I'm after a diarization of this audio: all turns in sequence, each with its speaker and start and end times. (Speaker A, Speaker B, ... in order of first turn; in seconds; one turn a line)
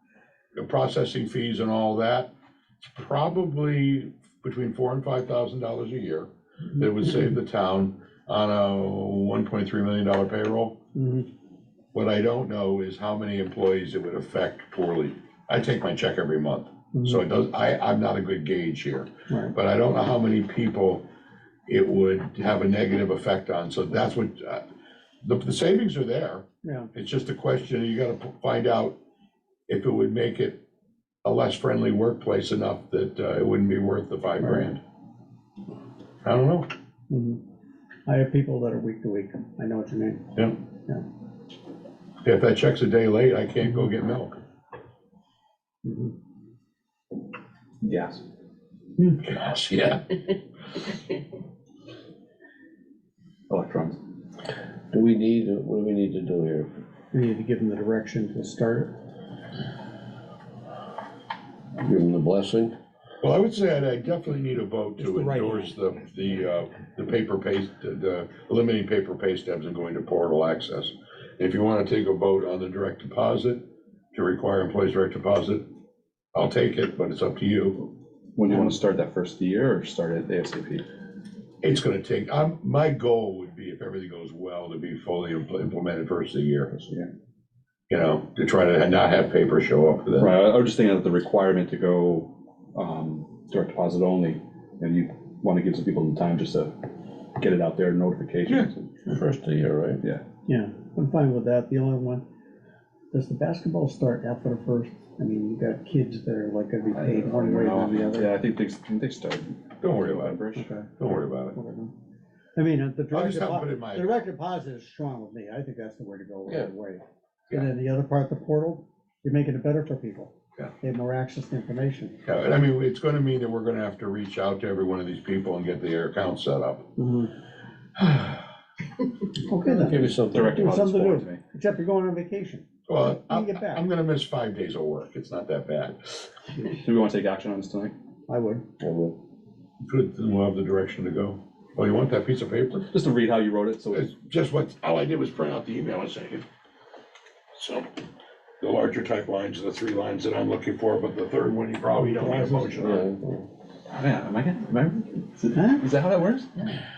Speaker A: 0.6-2.3
Speaker A: 2.8-10.8
Speaker B: 10.9-11.3
Speaker A: 11.9-21.0
Speaker A: 21.7-24.6
Speaker A: 25.2-29.0
Speaker B: 26.6-26.9
Speaker A: 29.7-30.6
Speaker A: 31.2-34.8
Speaker A: 36.2-36.7
Speaker B: 37.1-37.4
Speaker B: 38.0-41.0
Speaker A: 42.2-44.4
Speaker B: 45.8-46.1
Speaker C: 47.8-48.2
Speaker A: 49.0-50.2
Speaker C: 53.5-54.0
Speaker D: 54.9-56.7
Speaker B: 57.1-59.0
Speaker D: 61.8-62.7
Speaker A: 63.2-75.6
Speaker B: 65.0-65.7
Speaker A: 76.3-77.9
Speaker C: 78.3-80.9
Speaker A: 81.6-86.7
Speaker C: 86.7-87.1
Speaker A: 87.9-90.3
Speaker C: 90.2-99.0
Speaker D: 98.5-100.0
Speaker B: 100.5-102.2
Speaker B: 103.1-108.4
Speaker C: 106.9-110.7
Speaker A: 109.8-110.4
Speaker B: 110.5-111.9
Speaker A: 111.0-111.5
Speaker B: 112.5-122.2
Speaker A: 113.1-114.3
Speaker A: 122.2-126.9
Speaker B: 127.0-127.3
Speaker A: 128.0-128.3
Speaker B: 129.5-133.8
Speaker D: 129.6-130.8
Speaker C: 130.3-131.4
Speaker A: 132.9-136.0
Speaker C: 136.8-137.9
Speaker B: 138.3-138.7
Speaker D: 138.8-139.2
Speaker A: 139.8-142.9
Speaker C: 142.9-144.1
Speaker A: 143.9-146.4
Speaker A: 147.5-147.9
Speaker A: 148.6-153.0
Speaker B: 152.0-153.0
Speaker D: 152.8-153.4
Speaker C: 153.9-156.7
Speaker B: 155.5-155.8